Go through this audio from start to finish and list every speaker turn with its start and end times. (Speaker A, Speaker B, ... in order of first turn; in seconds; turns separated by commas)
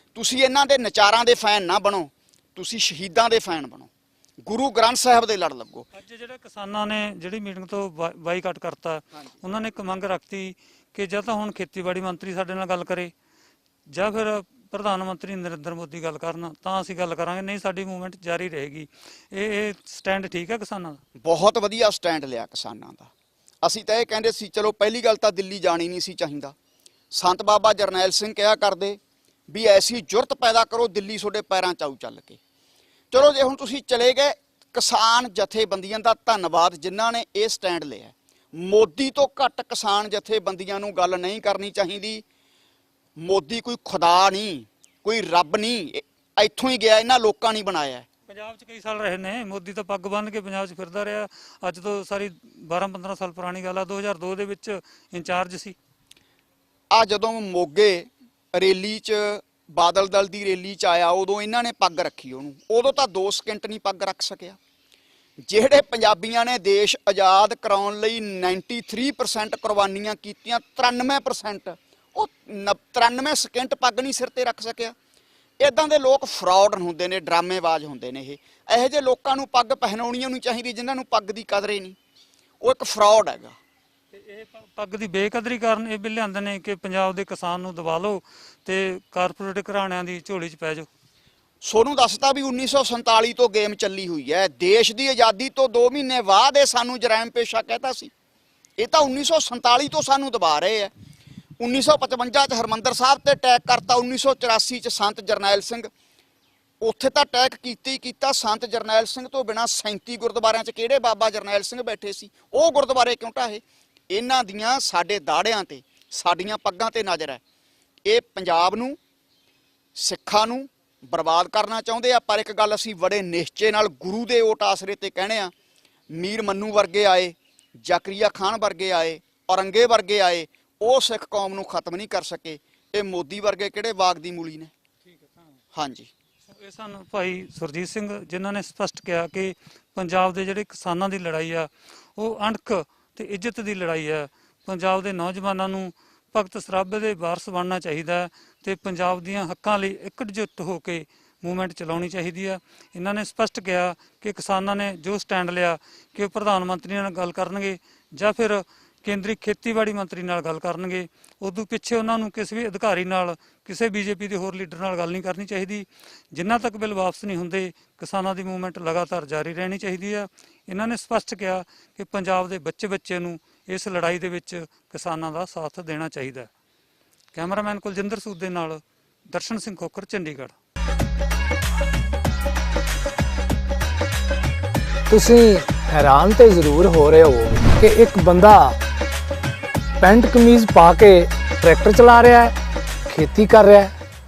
Speaker A: 0.1-3.9, Speaker A: 4.5-5.9, Speaker B: 6.0-13.1, Speaker B: 13.9-21.0, Speaker A: 21.2-23.1, Speaker A: 23.6-26.5, Speaker A: 27.1-29.0, Speaker A: 29.5-32.4, Speaker A: 33.1-42.2, Speaker A: 43.2-48.1, Speaker B: 48.3-55.8, Speaker A: 56.9-64.6, Speaker A: 65.5-75.0, Speaker A: 75.6-82.0, Speaker A: 82.6-83.6, Speaker B: 84.1-90.9, Speaker A: 91.6-98.1, Speaker A: 98.8-100.9, Speaker A: 101.6-105.9, Speaker A: 106.8-117.4, Speaker A: 118.1-119.0, Speaker A: 120.0-125.5, Speaker A: 126.1-134.7, Speaker A: 135.7-136.1, Speaker B: 136.5-176.5, Speaker B: 177.3-180.6, Speaker C: 185.1-188.8, Speaker C: 190.0-192.5, Speaker C: 193.1-193.9